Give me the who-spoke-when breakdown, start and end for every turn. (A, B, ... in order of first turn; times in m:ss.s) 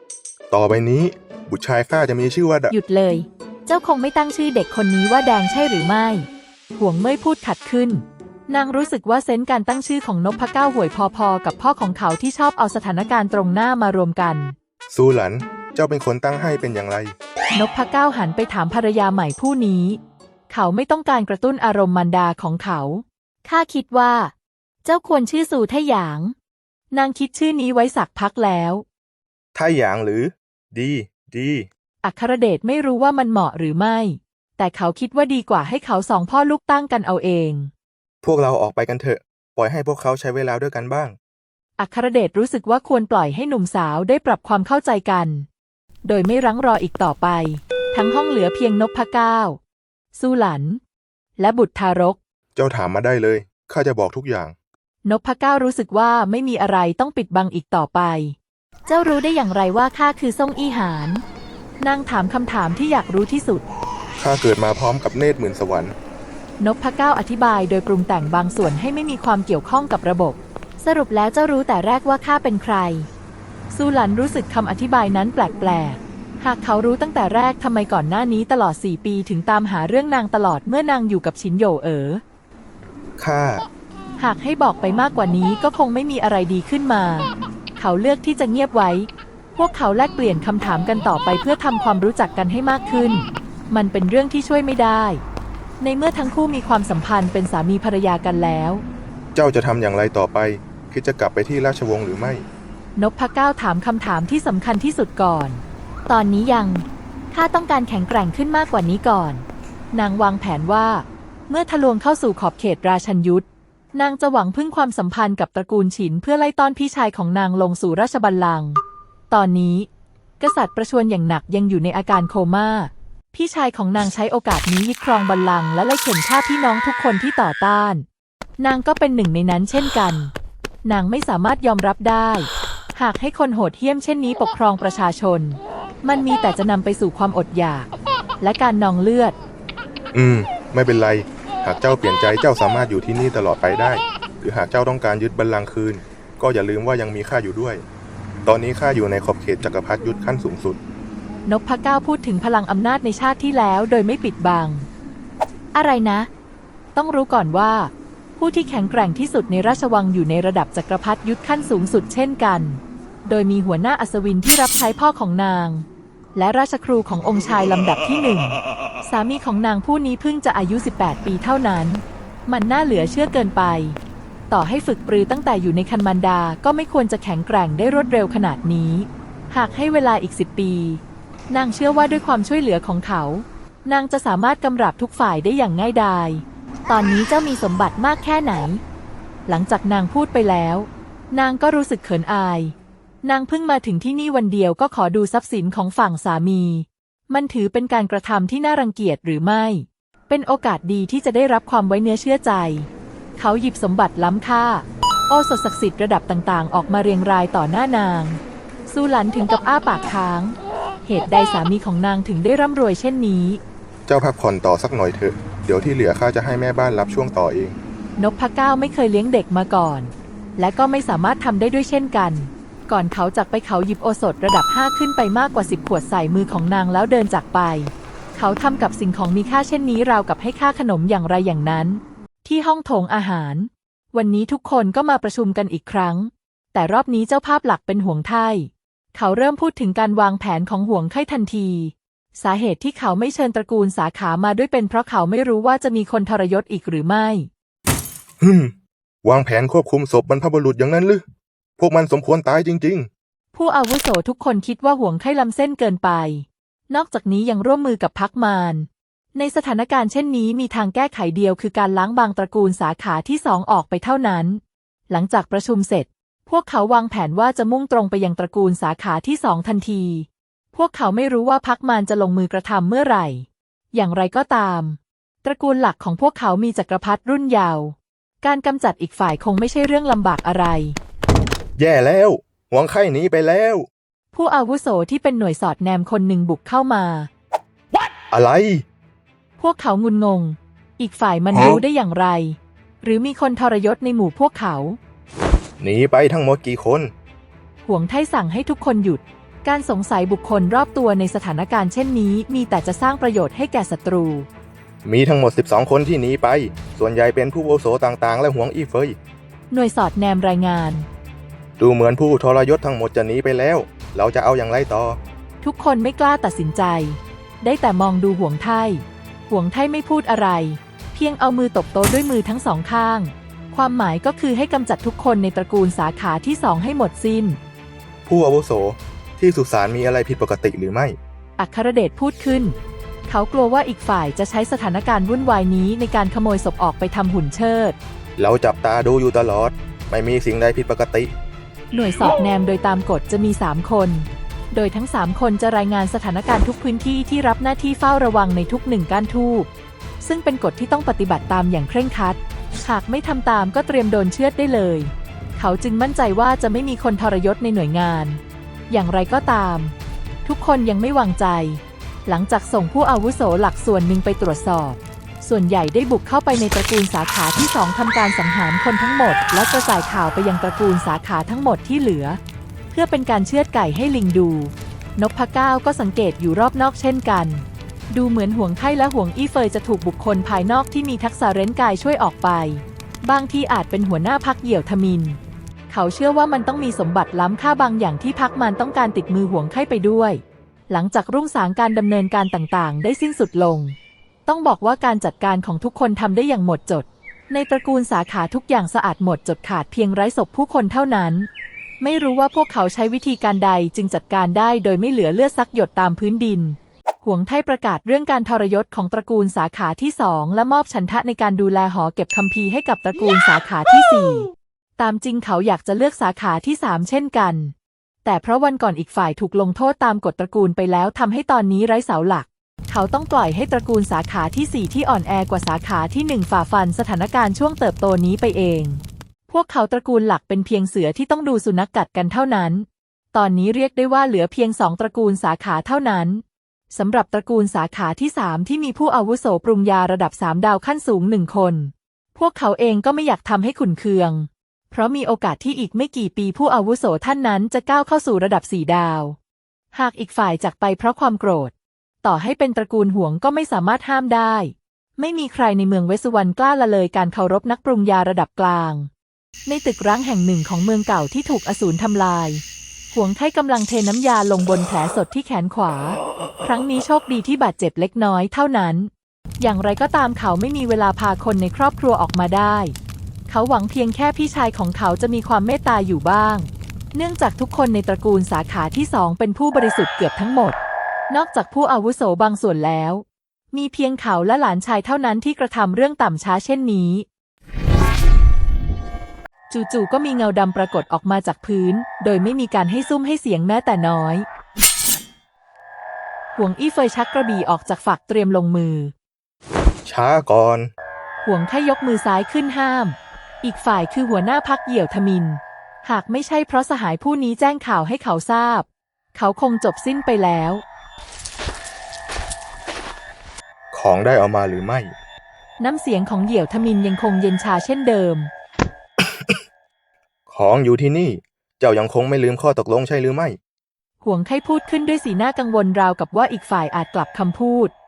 0:00.5-0:02.7 A
0:02.7-0:14.6 B
0:14.9-0:17.1 A
0:17.6-0:24.3 B
0:24.8-0:26.4 B
0:26.9-0:28.8 B
0:29.6-0:31.7 A
0:32.0-0:37.7 B
0:38.2-0:41.2 A
0:41.8-0:45.5 B
0:46.0-0:49.6 B
0:50.1-0:50.8 B
0:51.4-0:52.2 B
0:52.6-0:54.6 A
0:55.0-0:58.4 B
0:58.9-1:01.2 B
1:01.8-1:03.6 B
1:04.2-1:05.9 A
1:06.6-1:13.1 B
1:13.7-1:22.2 B
1:23.2-1:23.6 A
1:24.2-1:35.2 B
1:35.8-1:38.8 B
1:39.4-1:42.4 A
1:43.0-1:59.9 B
2:00.4-2:08.0 B
2:08.6-2:10.3 B
2:10.8-2:17.9 B
2:18.4-2:19.4 B
2:20.1-2:27.8 A
2:28.4-2:30.8 A
2:31.5-2:34.9 B
2:35.8-2:36.3 B
2:37.0-2:54.0 B
2:54.5-3:08.8 B
3:09.5-3:30.6 B
3:31.1-3:33.6 B
3:34.1-3:37.8 A
3:38.2-4:07.5 B
4:08.4-4:11.2 A
4:11.8-4:13.1 A
4:13.5-4:41.0 B
4:41.8-4:43.9 A
4:44.3-4:47.3 B
4:48.3-4:48.8 A
4:49.6-4:55.0 B
4:55.8-4:57.1 A
4:57.8-5:04.5 B
5:05.0-5:09.2 A
5:09.7-5:11.1 B
5:11.8-5:15.2 A
5:15.6-5:27.6 B
5:28.3-5:31.2 A
5:31.6-5:32.8 B
5:33.3-5:38.0 B
5:38.4-5:41.3 A
5:41.9-5:49.7 B
5:50.2-6:12.4 B
6:12.9-6:25.4 B
6:25.9-6:41.5 B
6:42.0-6:57.7 B
6:58.2-7:29.4 B
7:29.9-7:31.7 B
7:32.2-7:39.1 B
7:39.7-7:53.0 B
7:53.5-8:00.8 B
8:01.3-8:07.2 B
8:09.7-8:14.5 B
8:16.6-8:19.1 B
8:20.1-8:20.9 A
8:21.4-8:30.8 B
8:33.9-8:35.1 A
8:35.8-8:38.5 B
8:39.2-8:39.6 A
8:40.5-8:43.6 A
8:44.2-8:47.9 B